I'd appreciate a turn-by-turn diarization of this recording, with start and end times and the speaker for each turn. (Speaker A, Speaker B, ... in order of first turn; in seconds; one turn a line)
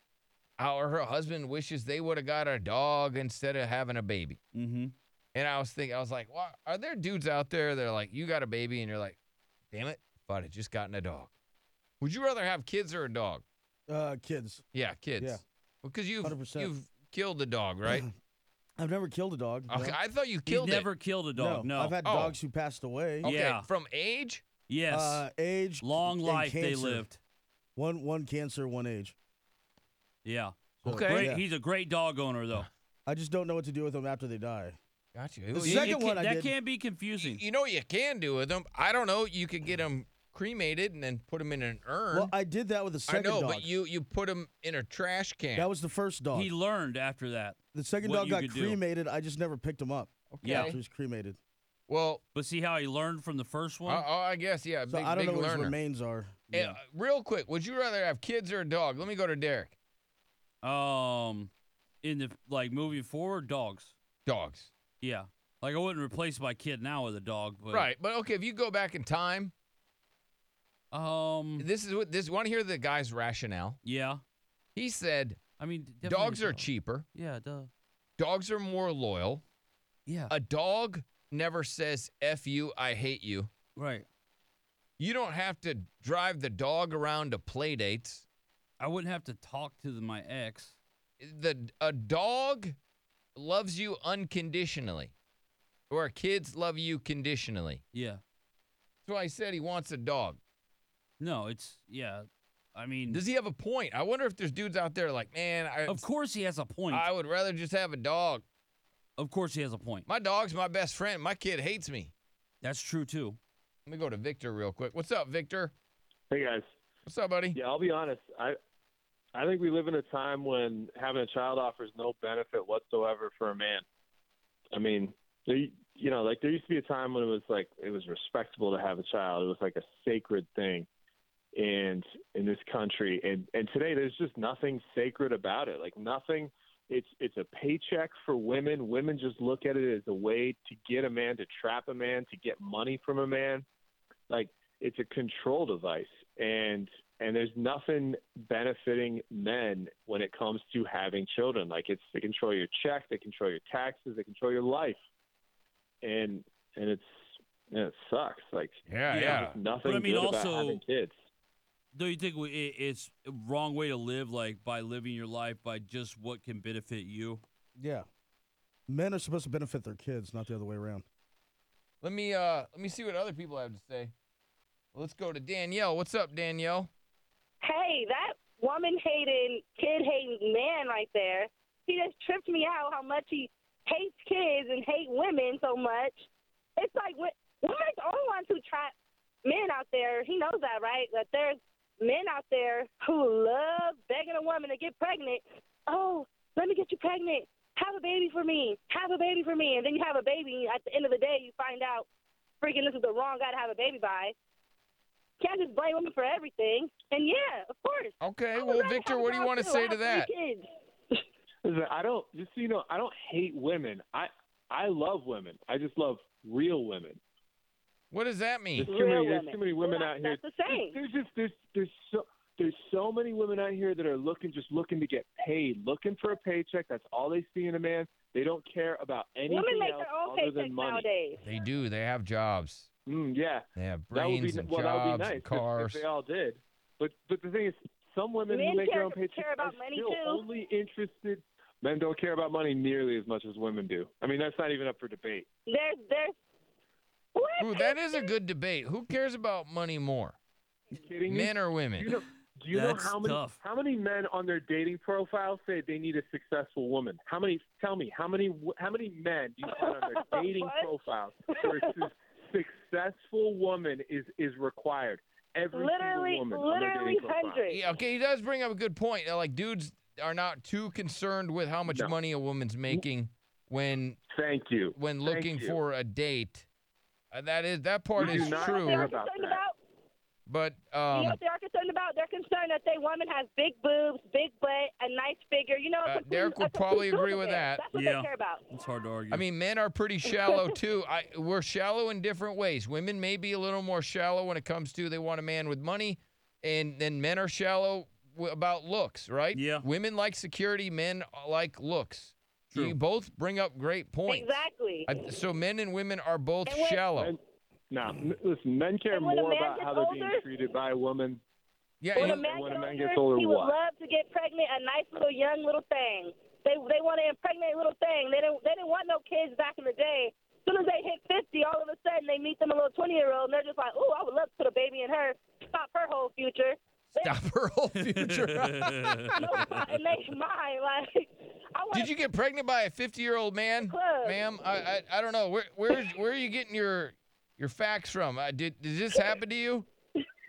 Speaker A: 0.6-4.4
Speaker B: 4.5-4.9
Speaker A: 5.3-9.2
Speaker A: 9.7-11.3
Speaker A: 12.0-13.4
Speaker C: 13.9-14.6
Speaker A: 14.7-18.0
Speaker C: 15.2-15.4
Speaker C: 16.2-16.7
Speaker C: 17.9-18.1
Speaker C: 18.8-20.0
Speaker A: 19.7-20.9
Speaker B: 20.5-22.0
Speaker C: 21.3-23.3
Speaker A: 22.0-22.4
Speaker A: 23.2-24.5
Speaker B: 23.2-23.7
Speaker B: 24.7-25.2
Speaker C: 24.9-27.1
Speaker B: 25.8-27.2
Speaker C: 27.8-29.1
Speaker B: 30.2-32.7
Speaker C: 30.8-31.4
Speaker A: 30.9-31.3
Speaker C: 33.1-34.8
Speaker A: 35.1-36.0
Speaker C: 35.5-36.6
Speaker B: 35.6-37.4
Speaker A: 37.2-42.3
Speaker C: 42.1-43.8
Speaker A: 43.1-45.7
Speaker C: 45.5-46.5
Speaker B: 46.3-48.8
Speaker C: 47.7-51.4
Speaker A: 50.3-50.8
Speaker B: 50.4-50.7
Speaker A: 51.9-52.2
Speaker B: 52.3-54.1
Speaker A: 53.9-55.8
Speaker C: 54.9-56.8
Speaker A: 56.5-59.8
Speaker B: 60.6-61.5
Speaker B: 62.0-64.0
Speaker A: 64.3-64.7
Speaker B: 65.0-67.9
Speaker A: 67.7-69.5
Speaker B: 70.9-71.7
Speaker A: 71.6-73.8
Speaker B: 73.8-74.2
Speaker A: 74.8-75.4
Speaker B: 75.6-77.7
Speaker A: 76.0-77.1
Speaker A: 78.2-79.4
Speaker B: 80.1-80.3
Speaker A: 80.3-83.5
Speaker B: 83.8-84.1
Speaker A: 85.0-88.2
Speaker B: 88.8-90.8
Speaker A: 91.2-92.8
Speaker A: 93.3-95.1
Speaker A: 95.9-97.8
Speaker B: 97.9-98.2
Speaker A: 99.0-100.4
Speaker B: 101.2-103.2
Speaker A: 103.1-106.1
Speaker B: 105.9-107.1
Speaker A: 106.9-108.4
Speaker B: 109.2-110.1
Speaker A: 110.1-112.1
Speaker B: 112.6-113.4
Speaker A: 113.9-115.7
Speaker D: 116.3-116.7
Speaker A: 117.1-117.6
Speaker D: 117.5-118.6
Speaker D: 119.3-123.8
Speaker D: 124.7-130.9
Speaker D: 131.5-143.7
Speaker D: 144.3-155.0
Speaker D: 156.0-157.1
Speaker D: 157.7-161.2
Speaker A: 158.9-159.6
Speaker B: 159.1-160.8
Speaker B: 161.9-167.4
Speaker C: 167.8-168.1
Speaker C: 168.9-171.1
Speaker A: 172.0-174.1
Speaker A: 174.9-176.9
Speaker E: 177.6-188.9
Speaker E: 189.4-202.1
Speaker E: 202.6-204.3
Speaker E: 205.4-211.2
Speaker A: 208.2-210.3
Speaker D: 211.6-217.2
Speaker A: 218.1-218.9
Speaker D: 218.8-231.1
Speaker E: 218.8-221.0
Speaker E: 229.5-231.4
Speaker A: 231.4-232.9
Speaker D: 233.1-245.5
Speaker A: 233.8-236.0
Speaker E: 238.5-240.4
Speaker E: 245.7-246.4
Speaker E: 247.3-248.3
Speaker A: 247.6-250.4
Speaker D: 250.9-267.7
Speaker A: 251.3-252.1
Speaker B: 252.7-253.6
Speaker E: 259.7-260.9
Speaker E: 261.5-261.9
Speaker E: 265.7-267.8
Speaker A: 267.7-274.2
Speaker D: 271.9-272.1
Speaker D: 274.3-275.8
Speaker A: 274.9-276.7
Speaker A: 277.3-279.1
Speaker D: 278.2-279.6
Speaker E: 278.3-279.8
Speaker A: 280.5-281.4
Speaker E: 281.1-288.7
Speaker A: 286.1-287.8
Speaker B: 287.9-289.4
Speaker A: 289.3-307.3
Speaker E: 290.2-290.7
Speaker B: 299.5-299.9
Speaker E: 304.3-305.1
Speaker E: 306.6-307.1
Speaker D: 307.9-311.4
Speaker E: 309.1-310.4
Speaker A: 312.0-312.4
Speaker E: 312.1-327.4
Speaker D: 312.2-313.8
Speaker A: 327.2-329.8
Speaker B: 328.0-329.8
Speaker E: 329.4-332.1
Speaker A: 331.9-339.9
Speaker E: 333.9-334.4